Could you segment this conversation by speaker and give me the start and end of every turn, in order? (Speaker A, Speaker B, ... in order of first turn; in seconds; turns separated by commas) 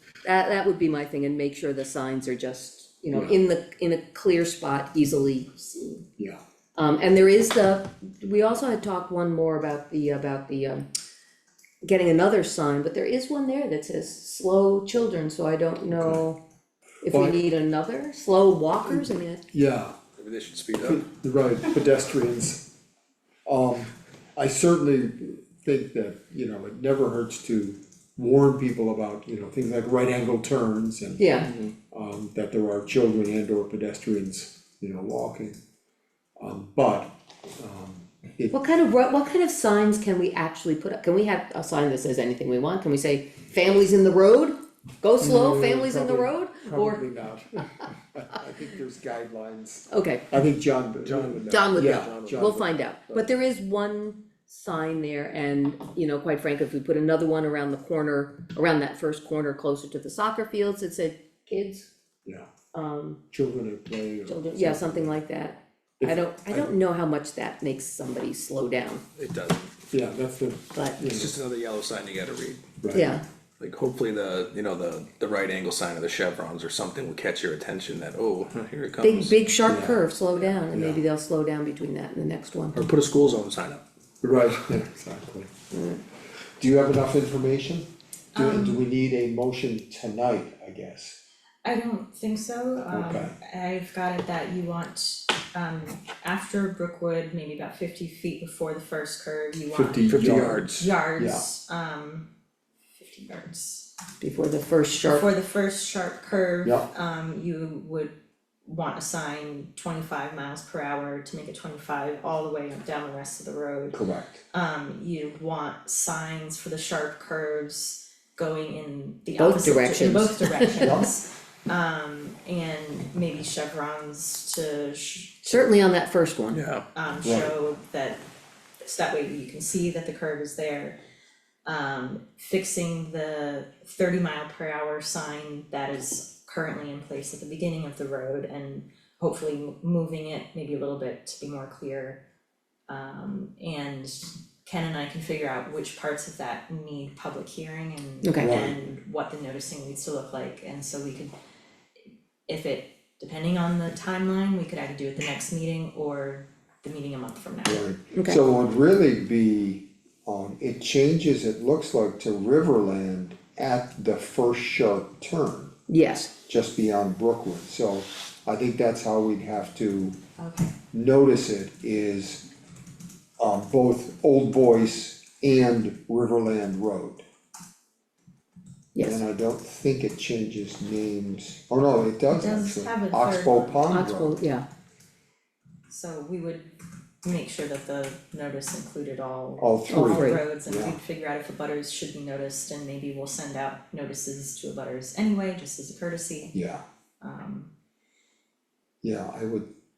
Speaker A: 0.2-6.0, Speaker B: 3.1-3.4, Speaker A: 6.8-10.9, Speaker A: 11.8-16.4, Speaker B: 16.0-16.2, Speaker A: 17.0-19.4, Speaker B: 17.1-17.4, Speaker B: 18.9-20.0, Speaker C: 20.2-21.1, Speaker B: 20.8-22.6, Speaker B: 23.5-35.6, Speaker A: 31.2-31.5, Speaker B: 36.4-38.6, Speaker A: 38.5-47.1, Speaker B: 45.2-52.7, Speaker A: 49.9-50.2, Speaker C: 51.0-53.2, Speaker A: 51.5-61.9, Speaker A: 62.7-63.2, Speaker B: 63.3-65.2, Speaker A: 64.3-69.0, Speaker B: 66.0-66.8, Speaker C: 69.2-69.7, Speaker B: 69.9-71.3, Speaker A: 70.7-71.0, Speaker C: 71.0-72.8, Speaker B: 72.8-73.1, Speaker A: 72.9-73.2, Speaker C: 73.6-79.4, Speaker A: 79.0-82.8, Speaker B: 79.7-80.0, Speaker B: 80.7-81.0, Speaker C: 82.7-83.8, Speaker B: 84.2-85.5, Speaker A: 85.7-86.0, Speaker B: 86.6-91.2, Speaker D: 88.3-88.8, Speaker D: 91.6-102.3, Speaker B: 92.9-93.3, Speaker B: 99.7-101.5, Speaker C: 100.0-100.9, Speaker D: 103.0-103.9, Speaker A: 104.2-105.3, Speaker D: 105.0-114.0, Speaker B: 113.9-114.4, Speaker D: 114.5-125.7, Speaker A: 119.4-121.0, Speaker B: 120.7-121.1, Speaker A: 125.5-126.6, Speaker C: 126.5-126.8, Speaker D: 127.0-128.2, Speaker B: 127.2-127.5, Speaker D: 128.8-131.0, Speaker D: 131.7-142.2, Speaker D: 142.9-151.3, Speaker A: 148.2-148.6, Speaker B: 148.4-148.8, Speaker D: 152.5-157.9, Speaker B: 157.6-165.7, Speaker A: 158.1-158.4, Speaker A: 165.9-166.3, Speaker B: 166.5-170.2, Speaker D: 170.4-170.7, Speaker B: 170.9-172.4, Speaker B: 173.4-177.2, Speaker A: 178.9-179.2, Speaker B: 179.0-184.4, Speaker D: 182.3-183.8, Speaker A: 183.9-184.6, Speaker D: 185.9-196.5, Speaker B: 189.6-191.0, Speaker A: 189.9-190.4, Speaker B: 196.5-196.8, Speaker D: 197.2-197.7, Speaker B: 199.0-199.7